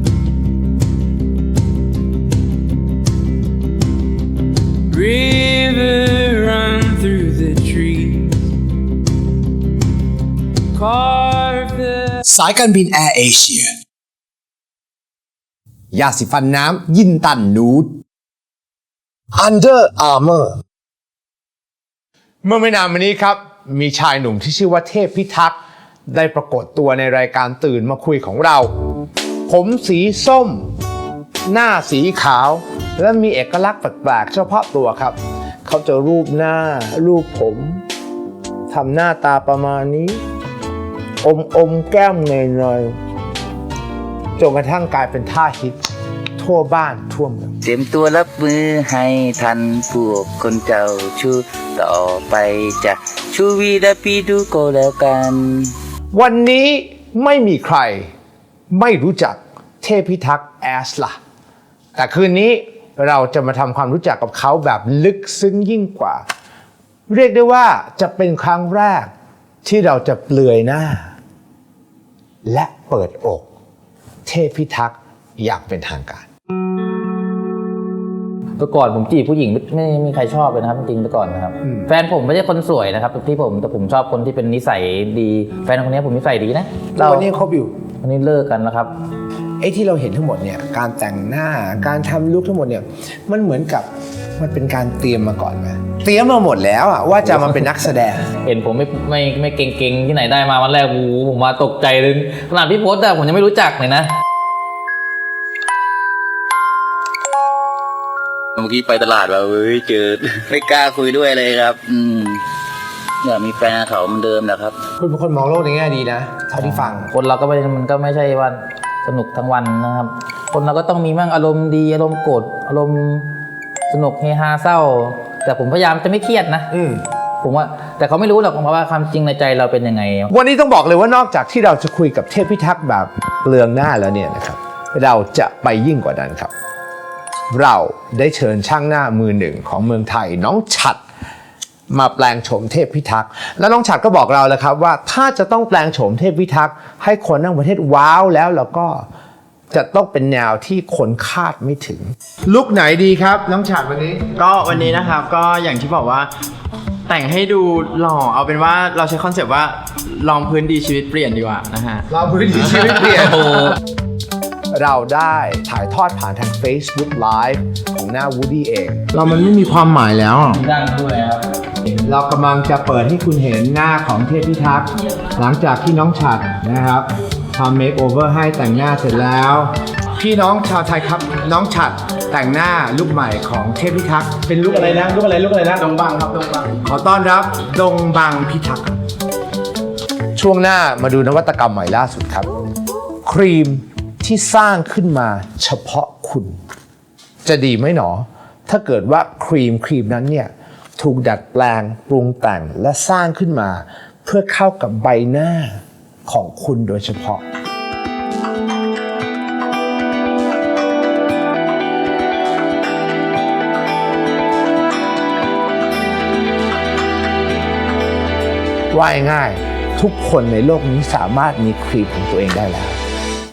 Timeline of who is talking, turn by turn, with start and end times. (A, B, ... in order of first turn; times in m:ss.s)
0:04.9-0:08.4 A
0:10.7-0:12.2 A
0:12.2-0:13.7 B
0:15.9-0:17.9 B
0:19.3-0:20.6 B
0:22.4-0:25.6 B
0:26.1-0:28.7 B
0:29.5-0:30.7 B
0:31.5-0:37.8 B
0:38.7-0:40.2 B
0:41.2-0:43.0 B
0:44.4-0:45.8 B
0:46.4-0:47.6 B
0:47.6-0:55.7 C
0:56.1-0:58.1 B
0:58.7-1:01.2 B
1:02.0-1:06.2 B
1:07.1-1:09.1 B
1:09.6-1:11.1 B
1:12.4-1:13.4 B
1:14.2-1:16.2 B
1:18.6-1:27.3 D
1:27.0-1:27.7 B
1:28.0-1:28.9 D
1:29.6-1:38.2 B
1:38.4-1:44.1 D
1:48.6-1:52.4 C
1:53.2-1:54.8 C
1:55.0-1:57.1 B
1:57.0-2:03.3 D
2:03.9-2:06.7 D
2:06.7-2:07.0 B
2:07.4-2:10.3 D
2:10.3-2:16.5 B
2:17.5-2:21.0 B
2:21.9-2:29.1 B
2:29.7-2:34.3 B
2:34.3-2:36.3 E
2:37.1-2:42.1 E
2:42.1-2:43.8 B
2:44.7-2:50.7 B
2:50.8-2:51.3 D
2:52.0-3:05.8 B
3:04.6-3:06.8 E
3:06.8-3:09.0 B
3:10.4-3:12.5 B
3:13.2-3:16.6 B
3:17.4-3:27.4 B
3:38.9-3:43.0 B